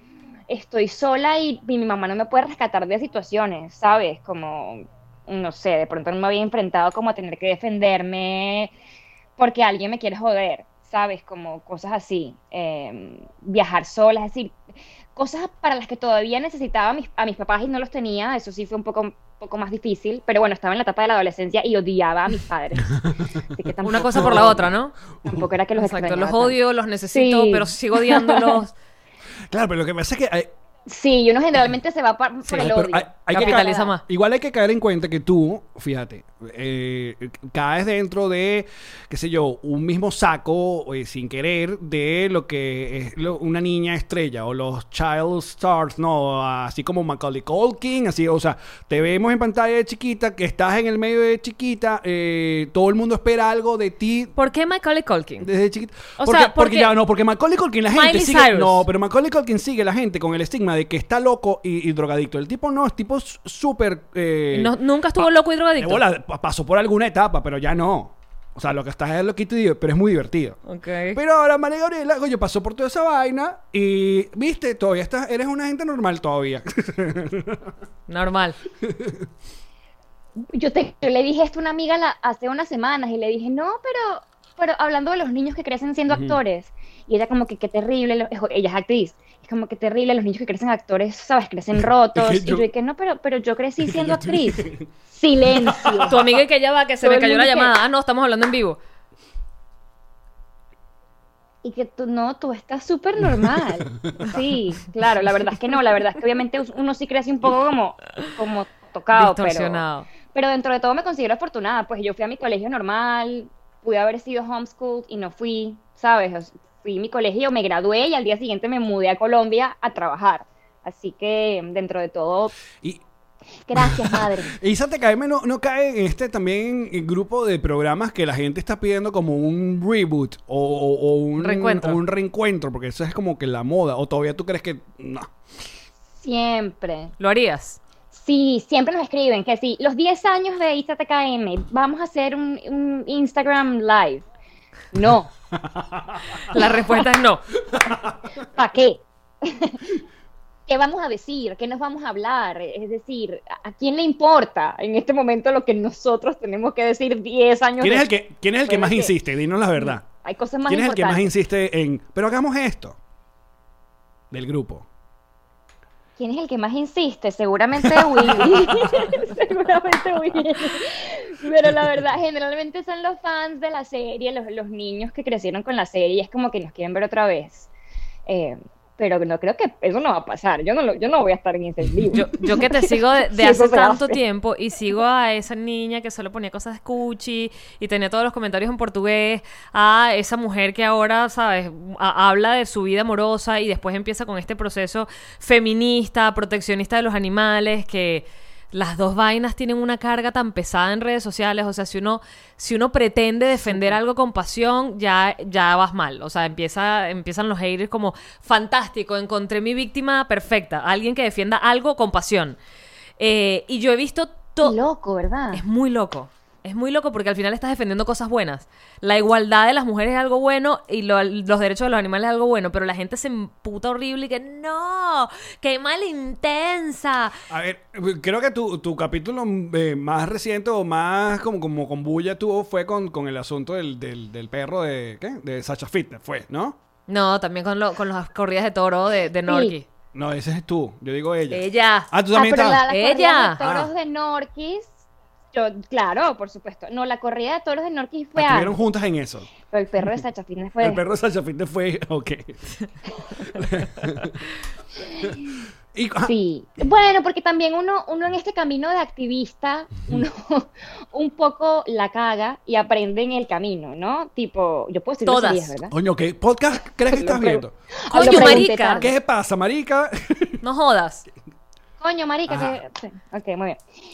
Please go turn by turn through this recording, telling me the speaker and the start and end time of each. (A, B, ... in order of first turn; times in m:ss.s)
0:00.5-0:08.8 A
0:09.4-0:14.6 A
0:15.2-0:24.7 A
0:23.8-0:25.0 B
0:24.0-0:24.7 C
0:25.2-0:28.6 A
0:25.8-0:28.7 B
0:29.5-0:30.5 C
0:30.9-0:33.9 A
0:32.4-0:32.7 B
0:32.6-0:54.3 C
0:33.3-0:34.0 B
0:54.4-0:55.5 B
0:55.4-1:10.6 C
0:56.2-0:56.9 B
0:57.9-0:58.8 B
1:04.5-1:06.0 B
1:10.7-1:11.2 B
1:11.1-1:17.7 C
1:18.1-1:18.6 B
1:18.8-1:19.2 C
1:20.5-1:36.4 A
1:26.1-1:26.4 C
1:31.8-1:32.7 C
1:33.8-1:34.9 C
1:35.5-1:36.2 C
1:36.1-1:38.8 B
1:37.0-1:37.7 A
1:41.6-2:02.5 A
1:44.0-1:44.3 C
1:49.1-1:50.1 B
2:03.7-2:04.5 A
2:03.8-2:15.3 C
2:11.4-2:12.0 B
2:16.2-2:17.1 A
2:17.2-2:17.8 B
2:18.1-2:24.2 A
2:24.9-2:25.3 A
2:25.6-2:26.5 C
2:26.5-2:27.4 B
2:26.5-2:27.0 A
2:27.7-2:28.2 C
2:28.5-2:29.8 A
2:30.7-2:38.1 A
2:37.8-2:40.0 C
2:38.7-2:39.1 A
2:39.8-2:41.3 A
2:40.7-2:43.0 C
2:44.3-2:44.9 C
2:46.2-2:57.7 A
2:48.0-2:48.7 C
2:58.3-3:04.2 A
3:02.1-3:32.6 B
3:23.6-3:24.0 A
3:33.2-3:34.8 B
3:34.6-3:35.6 A
3:35.5-3:47.4 B
3:47.5-3:56.8 C
3:57.1-3:59.9 B
3:59.5-3:59.7 A
4:00.1-4:02.8 C
4:01.5-4:02.1 B
4:02.3-4:05.0 A
4:02.9-4:03.6 B
4:03.6-4:03.9 C
4:05.5-4:08.8 A
4:08.4-4:09.5 C
4:09.7-4:11.0 A
4:10.8-4:12.6 C
4:13.4-4:14.4 C
4:15.9-4:16.4 C
4:16.2-4:25.9 A
4:25.3-4:25.8 B
4:25.9-4:30.6 C
4:27.1-4:29.1 A
4:28.1-4:29.1 B
4:30.6-4:31.3 B
4:32.0-4:33.9 A
4:32.5-4:32.8 C